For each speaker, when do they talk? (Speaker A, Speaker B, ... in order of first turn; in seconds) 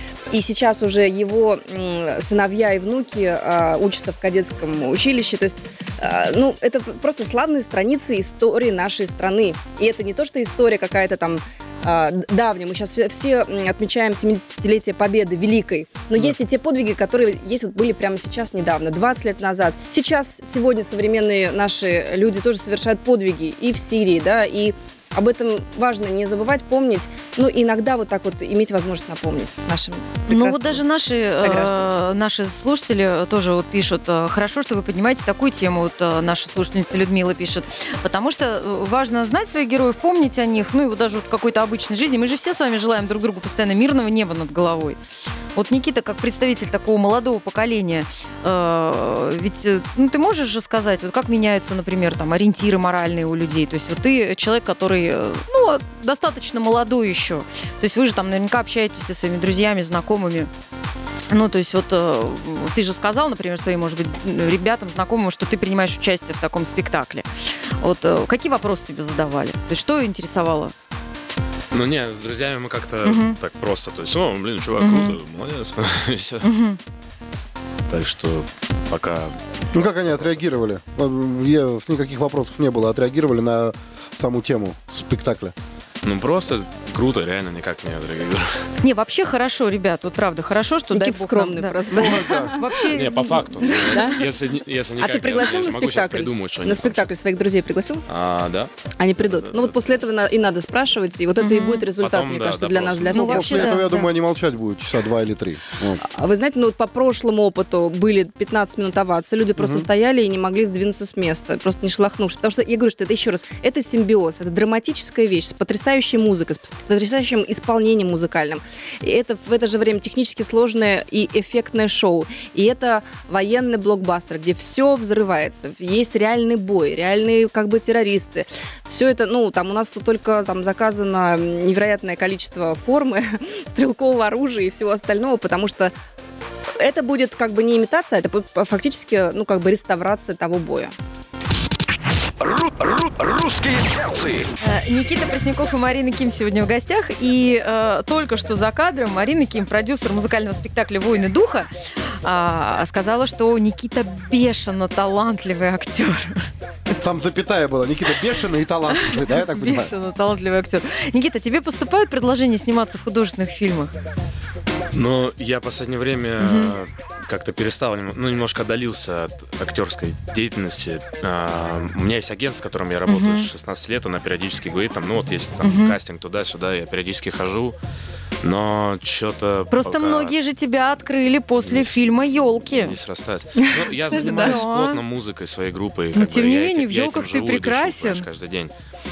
Speaker A: 0.3-30.8, 31.4-31.9, 90.9-92.6, 93.7-94.2, 95.0-98.0, 99.0-103.9, 106.0-135.9, 136.8-140.9, 184.2-184.6
Speaker B: 30.3-45.0, 45.6-60.5, 61.3-67.3, 67.8-70.7, 73.0-73.4, 74.8-75.2, 76.4-76.8, 88.8-93.8, 101.4-101.9, 103.1-104.1, 144.6-151.7, 152.2-156.5, 158.9-163.9, 166.4-166.8, 173.1-173.5, 175.6-176.0, 179.7-182.9, 184.1-185.0, 186.2-188.3
Speaker C: 71.7-76.5, 77.9-80.4, 86.0-88.6, 92.9-97.1, 98.1-99.9, 102.0-103.3, 164.9-177.8, 178.4-180.3, 181.6-182.0, 182.7-188.7
Speaker D: 79.7-85.5, 91.9-92.5, 103.2-106.0, 109.6-109.9, 157.0-159.9
Speaker E: 142.5-144.4